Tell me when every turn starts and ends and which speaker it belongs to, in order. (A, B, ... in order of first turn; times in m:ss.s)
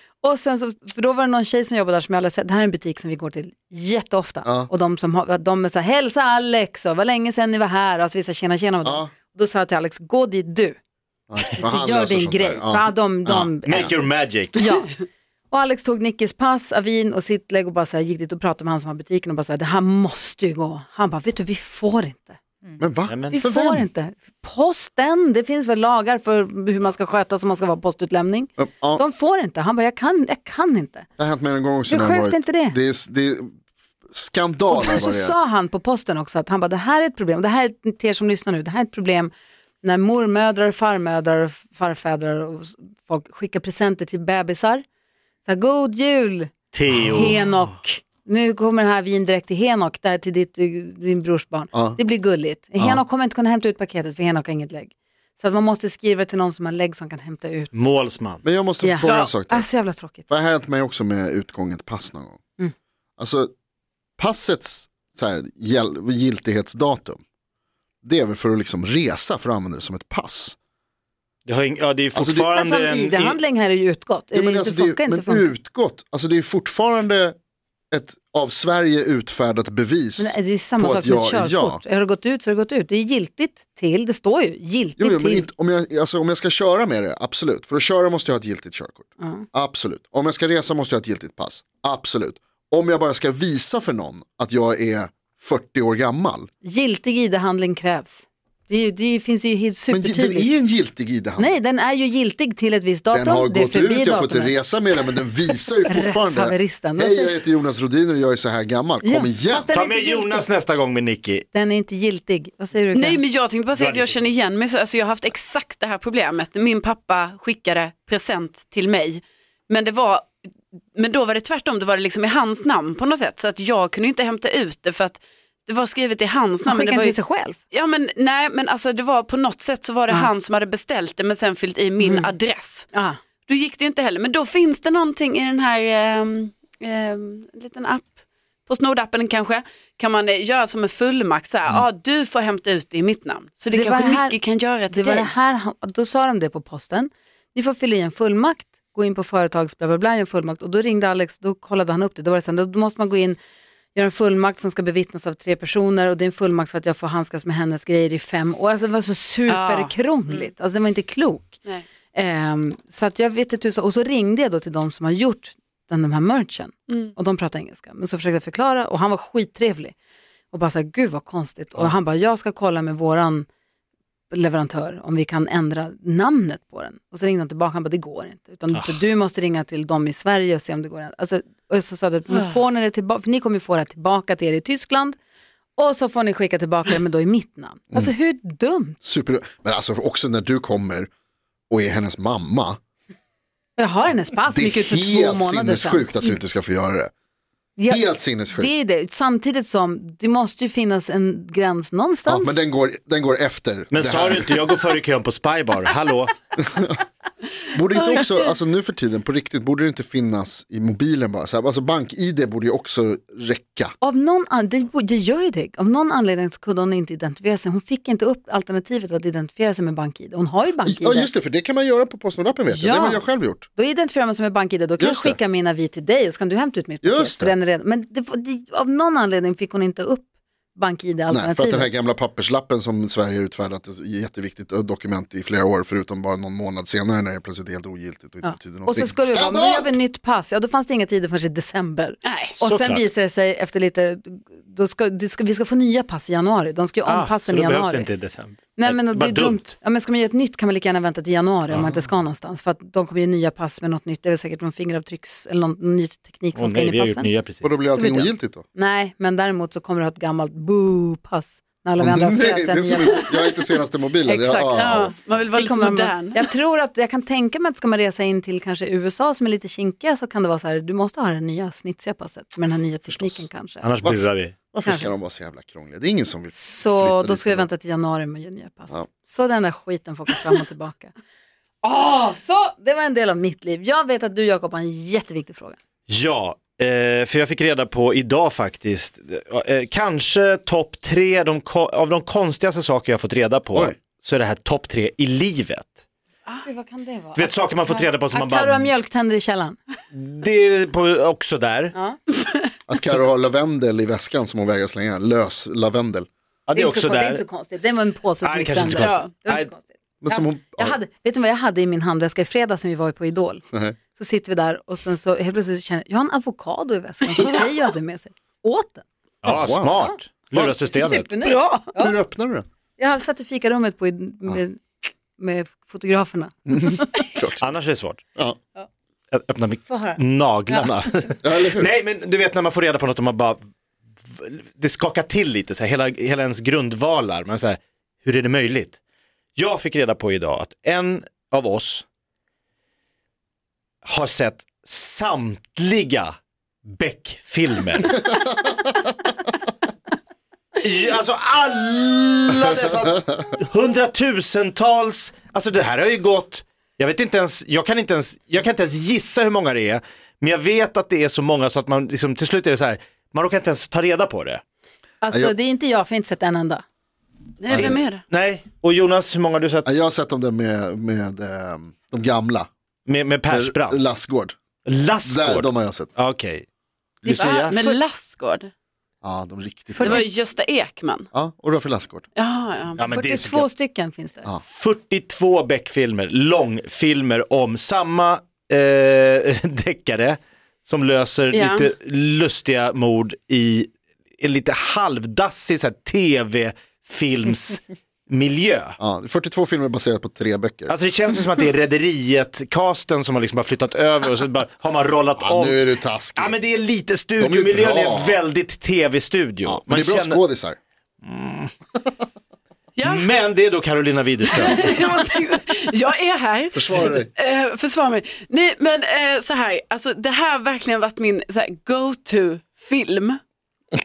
0:00.2-0:10.8 A
0:04.4-0:04.7 B
0:08.8-0:09.1 B
0:11.3-0:13.9 B
0:11.4-0:14.0 A
0:13.7-0:14.7 C
0:14.6-0:22.4 A
0:22.8-0:23.9 B
0:23.1-0:23.4 C
0:23.3-0:31.1 A
0:28.6-0:29.0 B
0:31.2-0:33.5 B
0:31.9-0:32.8 A
0:34.1-0:35.4 B
0:34.7-0:44.8 A
0:45.4-0:57.9 A
0:46.7-0:47.4 C
0:51.7-0:52.0 B
0:52.8-0:53.0 B
0:57.7-0:58.4 C
0:58.4-0:59.7 B
0:58.8-1:00.2 A
0:59.0-0:59.3 D
1:00.3-1:02.4 B
1:03.2-1:03.5 B
1:04.2-1:07.2 B
1:08.0-1:10.6 B
1:11.5-1:13.4 C
1:12.1-1:12.5 B
1:12.5-1:15.5 A
1:14.3-1:17.4 B
1:17.9-1:21.8 B
1:20.2-1:25.5 A
1:25.0-1:36.5 B
1:29.2-1:29.5 A
1:36.6-1:40.5 A
1:39.9-1:41.6 B
1:41.4-1:44.6 A
1:43.1-1:49.7 B
1:45.9-1:47.4 A
1:49.0-1:50.5 A
1:49.7-1:51.4 C
1:51.5-1:53.2 A
1:52.9-2:00.4 D
1:53.8-1:54.2 C
2:01.0-2:07.2 D
2:06.7-2:07.6 A
2:07.7-2:12.9 D
2:12.0-2:12.3 A
2:12.9-2:13.2 A
2:13.5-2:18.2 D
2:18.7-2:25.3 D
2:23.7-2:24.4 A
2:24.9-2:33.4 A
2:33.9-2:41.6 A
2:39.5-2:40.5 D
2:42.1-2:50.0 A
2:46.9-2:47.1 D
2:50.5-2:53.5 A
2:54.3-3:05.2 A
3:05.8-3:09.0 A
3:09.0-3:11.1 B
3:11.7-3:12.8 B
3:13.8-3:16.2 A
3:14.5-3:17.1 B
3:17.8-3:22.6 A
3:17.9-3:18.7 B
3:22.3-3:24.6 B
3:23.9-3:26.4 C
3:26.6-3:27.0 B
3:27.7-3:33.9 B
3:27.9-3:28.5 D
3:34.0-3:41.3 A
3:40.9-3:43.7 B
3:42.7-3:51.9 A
3:45.0-3:45.4 B
3:47.0-3:47.6 B
3:51.3-4:00.0 B
3:58.4-4:08.1 A
4:02.2-4:02.5 D
4:02.6-4:03.0 C
4:07.0-4:09.6 C
4:08.8-4:17.3 A
4:16.6-4:17.8 C
4:17.6-4:18.6 B
4:17.9-4:23.4 A
4:22.0-4:25.2 B
4:24.3-4:26.4 D
4:25.5-4:33.9 A
4:33.1-4:33.5 B
4:33.8-4:34.6 C
4:34.0-4:37.7 B
4:34.8-4:35.1 A
4:36.5-4:41.1 A
4:41.8-4:45.8 A
4:46.1-4:56.0 C
4:56.6-4:59.8 A
4:57.4-4:58.9 C
5:00.1-5:01.9 C
5:01.9-5:02.2 A
5:02.4-5:02.7 D
5:02.9-5:06.3 B
5:06.7-5:07.4 C
5:06.8-5:19.0 A
5:08.4-5:09.7 C
5:08.8-5:09.3 D
5:10.2-5:11.0 B
5:19.4-5:21.3 C
5:19.5-5:20.0 B
5:20.8-5:22.2 A
5:21.4-5:21.9 D
5:22.0-5:22.7 B
5:23.0-5:24.8 A
5:25.4-5:27.3 A
5:26.7-5:27.7 B
5:27.6-5:28.2 C
5:29.3-5:33.6 C
5:29.9-5:30.9 A
5:31.4-5:31.9 B
5:34.3-5:39.0 C
5:39.6-5:42.0 C
5:44.0-5:46.3 C
5:46.9-5:48.2 C
5:50.8-6:04.6 C
6:05.2-6:06.8 A
6:07.6-6:08.2 D
6:07.7-6:09.9 C
6:07.7-6:08.0 B
6:09.8-6:12.7 B
6:13.1-6:14.0 C
6:13.5-6:14.6 B
6:14.9-6:16.7 C
6:15.2-6:16.1 B
6:17.2-6:18.0 C
6:17.2-6:18.7 D
6:19.2-6:20.3 B
6:20.0-6:21.3 D
6:21.3-6:22.2 B
6:22.4-6:23.0 D
6:23.0-6:23.7 C
6:23.0-6:24.5 A
6:24.6-6:39.0 C
6:31.5-6:31.9 D
6:39.0-6:40.9 B
6:40.9-6:45.8 C
6:45.4-6:46.6 B
6:46.4-6:50.4 C
6:47.4-6:48.4 B
6:49.6-6:50.8 B
6:51.2-6:51.7 C
6:53.0-6:53.3 D
6:53.0-6:54.9 C
6:54.5-7:03.4 D
6:56.7-6:57.3 B